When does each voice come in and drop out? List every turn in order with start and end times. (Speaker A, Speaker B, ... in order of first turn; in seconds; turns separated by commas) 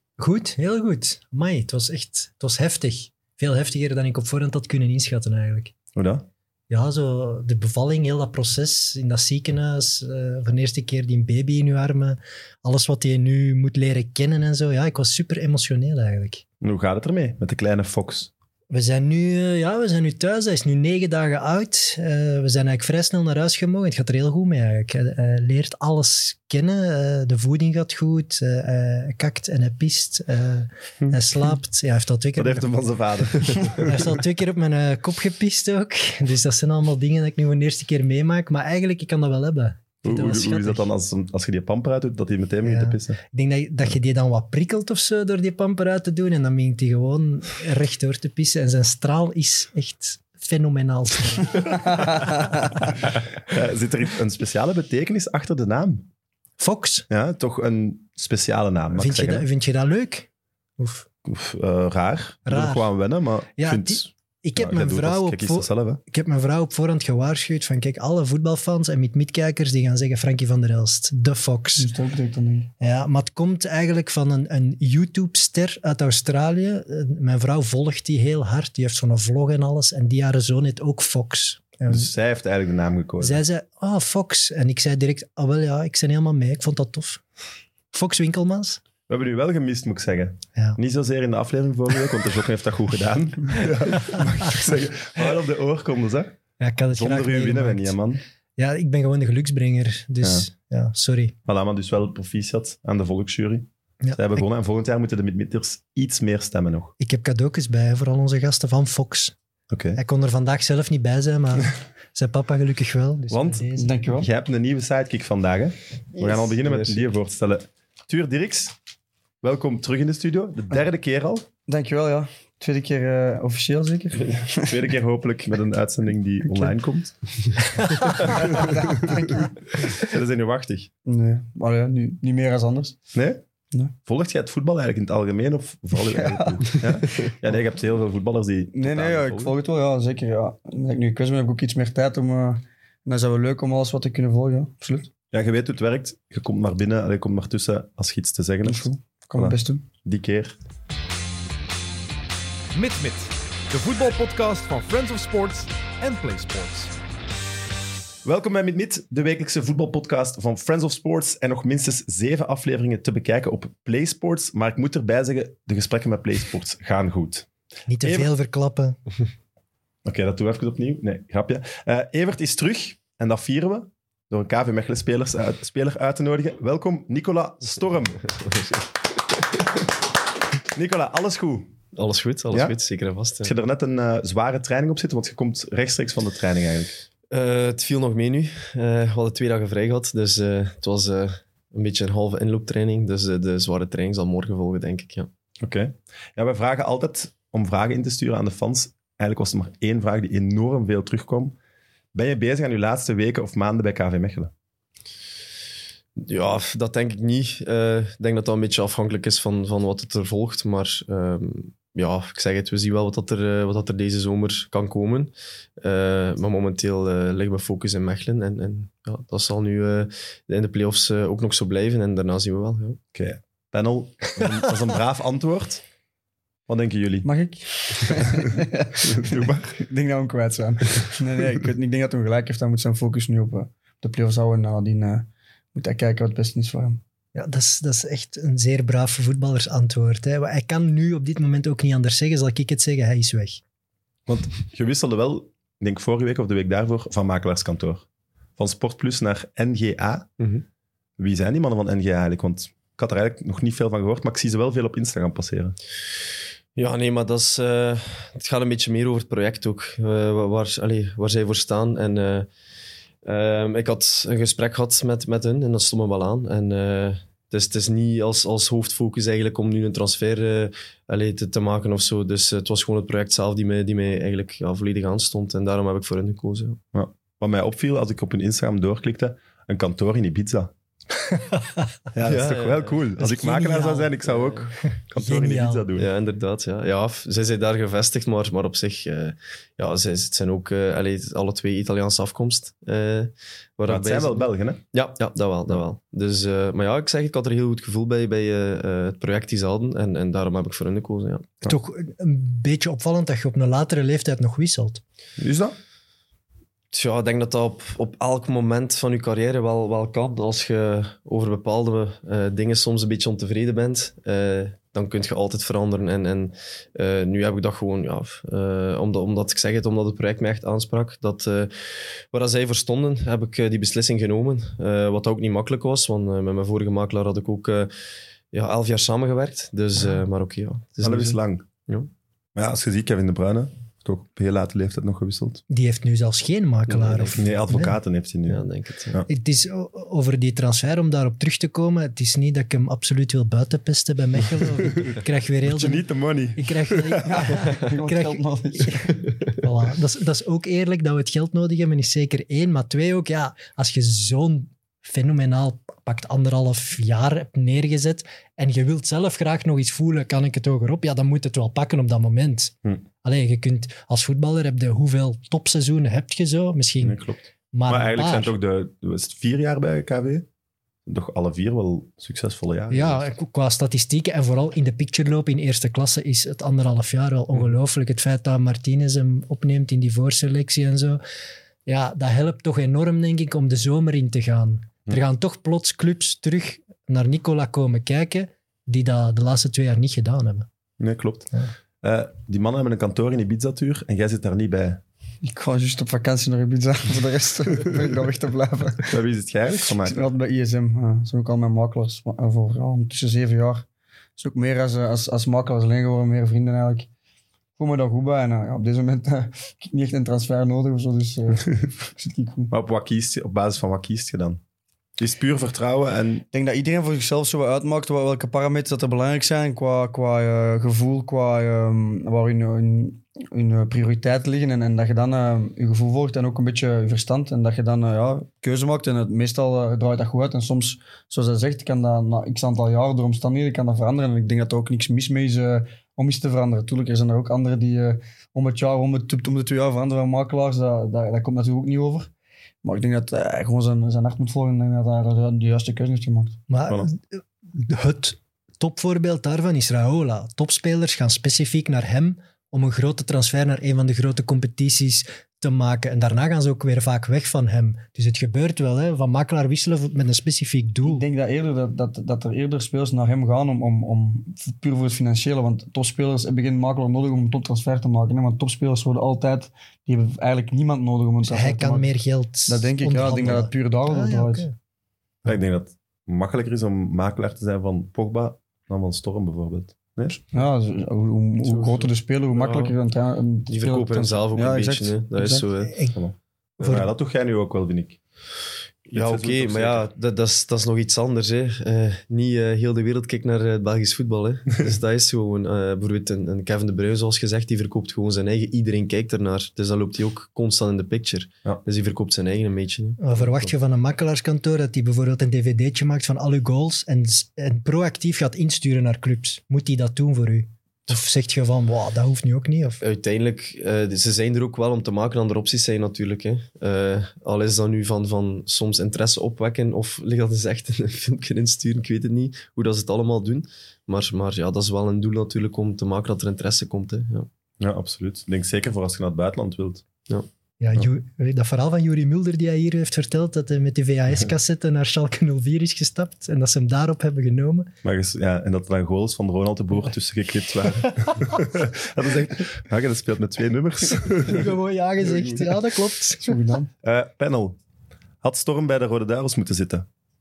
Speaker A: 0.2-5.7, Speaker B: 6.0-6.3, Speaker A: 6.7-16.4, Speaker B: 16.6-18.3, Speaker A: 18.7-32.7, Speaker B: 32.4-34.1, Speaker A: 33.7-40.9, Speaker B: 40.0-43.2, Speaker A: 42.6-52.9, Speaker B: 53.5-56.1, Speaker A: 56.6-57.1, Speaker B: 57.1-59.5, Speaker A: 59.0-60.3, Speaker A: 60.8-61.1, Speaker B: 61.2-66.0, Speaker A: 62.5-62.9, Speaker A: 63.6-71.9, Speaker C: 71.8-72.7, Speaker A: 72.8-82.1, Speaker B: 81.9-83.4, Speaker A: 83.2-87.2, Speaker A: 87.9-88.8, Speaker B: 89.1-96.3, Speaker A: 96.6-98.0, Speaker B: 96.9-98.2, Speaker A: 98.6-101.3, Speaker B: 101.5-106.9, Speaker A: 104.0-104.4, Speaker A: 107.0-109.3, Speaker B: 109.7-110.0, Speaker A: 110.0-113.9, Speaker B: 113.3-113.6, Speaker C: 113.8-114.3, Speaker B: 114.2-118.7, Speaker D: 116.2-117.0, Speaker B: 119.4-121.5, Speaker C: 121.7-124.8, Speaker B: 124.7-130.9, Speaker C: 128.3-129.5, Speaker C: 131.1-133.0, Speaker B: 133.1-133.4, Speaker B: 134.1-139.5, Speaker C: 138.7-145.1, Speaker B: 145.3-150.6, Speaker C: 148.6-149.8, Speaker E: 152.7-156.9, Speaker B: 158.2-167.5, Speaker A: 167.9-169.0, Speaker B: 168.0-168.3, Speaker B: 170.1-178.2, Speaker B: 180.7-181.7, Speaker D: 181.9-183.5, Speaker B: 183.4-186.9, Speaker D: 187.3-195.3, Speaker B: 195.6-201.6, Speaker B: 202.1-204.5, Speaker D: 206.2-223.0, Speaker B: 223.1-225.8, Speaker B: 226.7-227.3, Speaker C: 227.2-237.0, Speaker B: 228.0-229.8, Speaker A: 237.3-243.6, Speaker B: 244.3-248.1, Speaker B: 248.6-250.3, Speaker D: 250.4-250.6, Speaker B: 251.2-255.8, Speaker D: 256.8-262.5, Speaker D: 263.2-276.8, Speaker B: 276.9-280.7, Speaker A: 281.3-281.9, Speaker B: 282.1-286.1, Speaker D: 282.2-283.0, Speaker A: 283.2-284.1, Speaker D: 284.2-284.7, Speaker A: 285.1-285.9, Speaker D: 286.0-301.6, Speaker B: 293.9-294.8, Speaker A: 301.6-305.0, Speaker B: 305.4-305.8, Speaker D: 306.9-327.9, Speaker D: 328.5-332.1, Speaker B: 331.0-331.7, Speaker B: 332.6-335.6, Speaker A: 335.7-338.0, Speaker D: 336.9-337.4, Speaker B: 337.4-339.3, Speaker D: 338.5-339.2, Speaker A: 339.3-346.1, Speaker B: 345.7-347.4, Speaker A: 346.6-367.2, Speaker C: 347.2-349.1, Speaker B: 367.0-370.5, Speaker A: 367.7-368.5, Speaker B: 371.1-373.3, Speaker A: 372.9-381.2, Speaker A: 381.9-390.7, Speaker B: 391.0-391.5, Speaker B: 392.0-395.0, Speaker C: 395.4-399.2, Speaker B: 399.1-400.3, Speaker C: 400.0-403.9, Speaker C: 404.4-407.1, Speaker C: 407.8-412.7, Speaker B: 412.7-414.6, Speaker B: 415.2-416.4, Speaker C: 416.5-442.3, Speaker C: 442.8-446.6, Speaker A: 446.7-461.2, Speaker C: 461.0-472.1, Speaker A: 471.5-474.8, Speaker C: 472.7-474.7, Speaker B: 475.4-480.4, Speaker C: 480.4-485.7, Speaker D: 481.6-482.9, Speaker D: 483.7-486.0, Speaker A: 485.8-486.1, Speaker B: 486.1-488.2, Speaker A: 486.8-487.1, Speaker D: 489.1-503.4, Speaker B: 489.1-490.1, Speaker A: 503.2-513.0, Speaker D: 513.0-527.5, Speaker B: 527.8-530.0, Speaker A: 530.8-537.9, Speaker B: 538.0-544.7, Speaker A: 544.4-546.6, Speaker C: 546.4-546.9, Speaker B: 547.0-547.8, Speaker B: 548.4-550.1